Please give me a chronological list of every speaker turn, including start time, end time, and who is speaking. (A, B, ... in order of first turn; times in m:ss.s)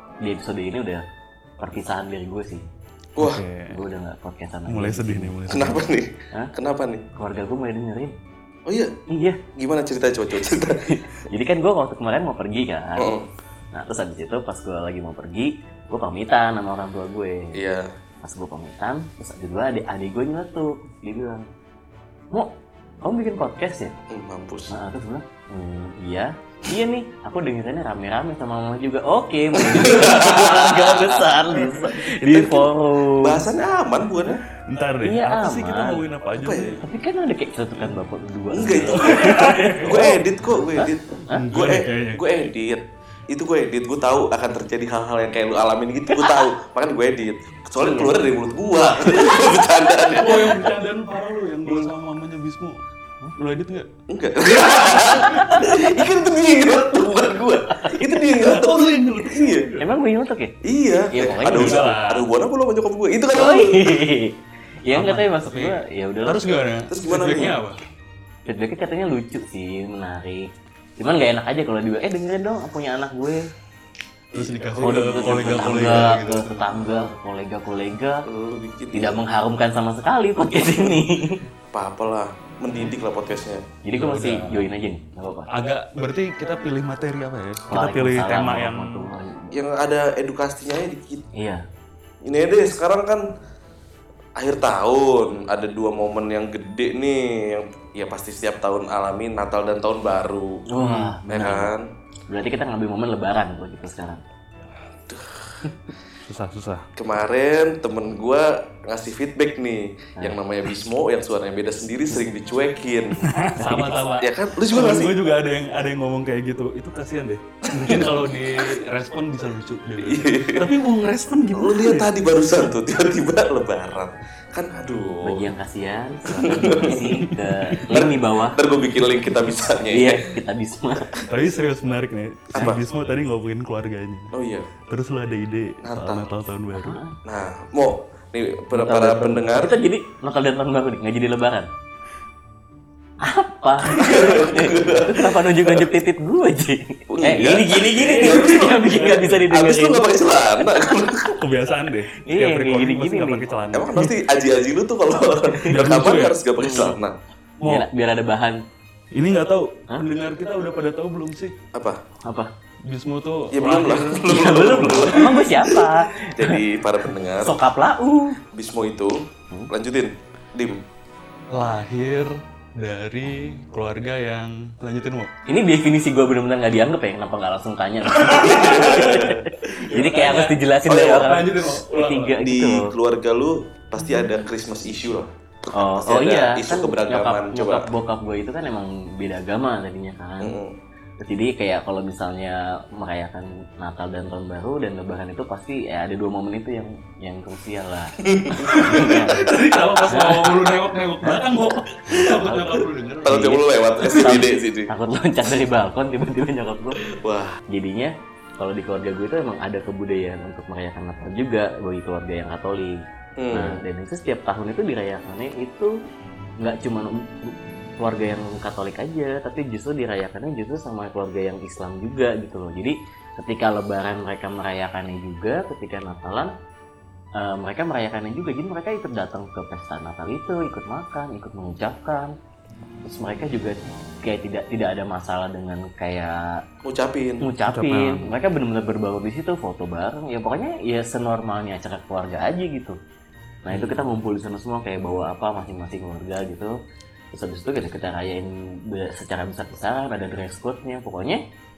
0:00.2-0:01.0 A
0:01.6-0:02.6 A
0:03.2-0:03.8 B
0:03.2-0:03.4 C
0:03.7-0:05.7 A
0:04.7-0:05.8 B
0:05.5-0:07.1 C
0:07.2-0:08.1 A
0:08.6-0:09.0 C
0:09.1-0:09.4 A
0:09.5-0:10.8 C
0:10.4-0:13.1 A
0:13.0-0:13.3 C
0:13.7-0:17.6 A
0:17.5-0:17.9 C
0:18.2-0:21.4 A
0:22.3-0:23.9 A
0:24.1-0:24.7 C
0:24.7-0:33.4 A
0:29.6-0:31.3 C
0:31.6-0:32.0 B
0:32.2-0:34.4 C
0:34.7-0:36.8 B
0:35.0-0:36.0 A
0:36.3-0:36.8 C
0:36.8-0:41.4 A
0:38.5-0:50.7 C
0:39.0-0:40.1 B
0:41.3-0:42.2 B
0:46.1-0:46.5 A
0:47.8-0:48.1 A
0:50.1-0:52.8 B
0:53.4-0:53.9 B
0:54.1-0:59.7 C
0:54.6-0:55.8 B
0:54.6-0:55.8 A
0:58.2-0:59.8 B
0:59.8-1:00.5 A
1:00.6-1:04.1 C
1:01.1-1:01.9 A
1:01.4-1:02.3 B
1:03.3-1:04.3 A
1:04.8-1:06.5 A
1:04.9-1:07.8 B
1:06.9-1:07.6 C
1:08.5-1:10.5 A
1:11.0-1:13.4 A
1:14.3-1:17.1 B
1:14.3-1:16.0 C
1:14.8-1:18.2 A
1:18.2-1:19.2 C
1:18.9-1:21.4 A
1:21.7-1:23.7 C
1:23.8-1:25.5 A
1:23.9-1:24.7 B
1:25.5-1:29.1 B
1:27.7-1:29.5 A
1:29.5-1:31.3 C
1:31.3-1:31.6 A
1:32.2-1:33.3 C
1:34.4-1:40.6 C
1:40.7-1:41.7 A
1:40.8-1:41.1 B
1:41.3-1:41.8 C
1:42.3-1:44.2 A
1:45.0-1:45.6 C
1:46.2-1:46.8 B
1:47.0-1:55.2 C
1:53.2-2:02.1 B
1:53.6-1:53.9 A
1:57.7-1:58.8 C
2:00.0-2:00.7 C
2:01.5-2:05.5 C
2:05.2-2:08.6 A
2:06.3-2:07.1 C
2:07.2-2:07.9 B
2:07.9-2:10.2 C
2:09.9-2:11.1 A
2:11.3-2:14.3 B
2:12.5-2:12.8 C
2:14.3-2:14.7 C
2:14.9-2:17.0 B
2:15.8-2:16.3 C
2:16.7-2:17.2 A
2:17.2-2:19.7 C
2:18.7-2:21.7 A
2:23.2-2:31.2 A
2:23.9-2:25.9 C
2:27.1-2:31.4 C
2:28.0-2:29.4 B
2:31.4-2:34.1 B
2:32.2-2:33.4 A
2:33.7-2:37.2 C
2:35.5-2:35.8 A
2:35.7-2:36.4 B
2:36.6-2:36.9 A
2:37.6-2:37.9 B
2:37.6-2:38.6 A
2:39.1-2:41.5 B
2:41.7-2:42.0 C
2:42.2-2:42.5 A
2:42.9-2:44.9 B
2:43.5-2:47.6 C
2:44.2-2:46.6 A
2:47.4-2:48.4 A
2:48.5-2:50.8 C
2:51.5-2:55.3 B
2:55.5-3:02.9 A
2:58.1-3:02.4 B
2:58.3-2:59.4 C
3:00.9-3:01.3 C
3:02.4-3:07.9 C
3:05.7-3:10.6 A
3:10.4-3:10.7 C
3:11.2-3:18.2 A
3:18.2-3:20.8 C
3:18.6-3:23.5 B
3:18.8-3:19.4 A
3:20.1-3:20.5 A
3:22.1-3:27.0 A
3:23.2-3:24.9 C
3:27.0-3:27.6 C
3:27.7-3:35.9 A
3:33.4-3:33.8 C
3:36.6-3:46.5 A
3:47.4-3:52.3 A
3:53.0-3:56.6 A
3:56.8-3:57.4 C
3:57.4-4:03.0 A
3:57.6-3:58.3 B
4:03.7-4:06.7 A
4:07.3-4:11.4 A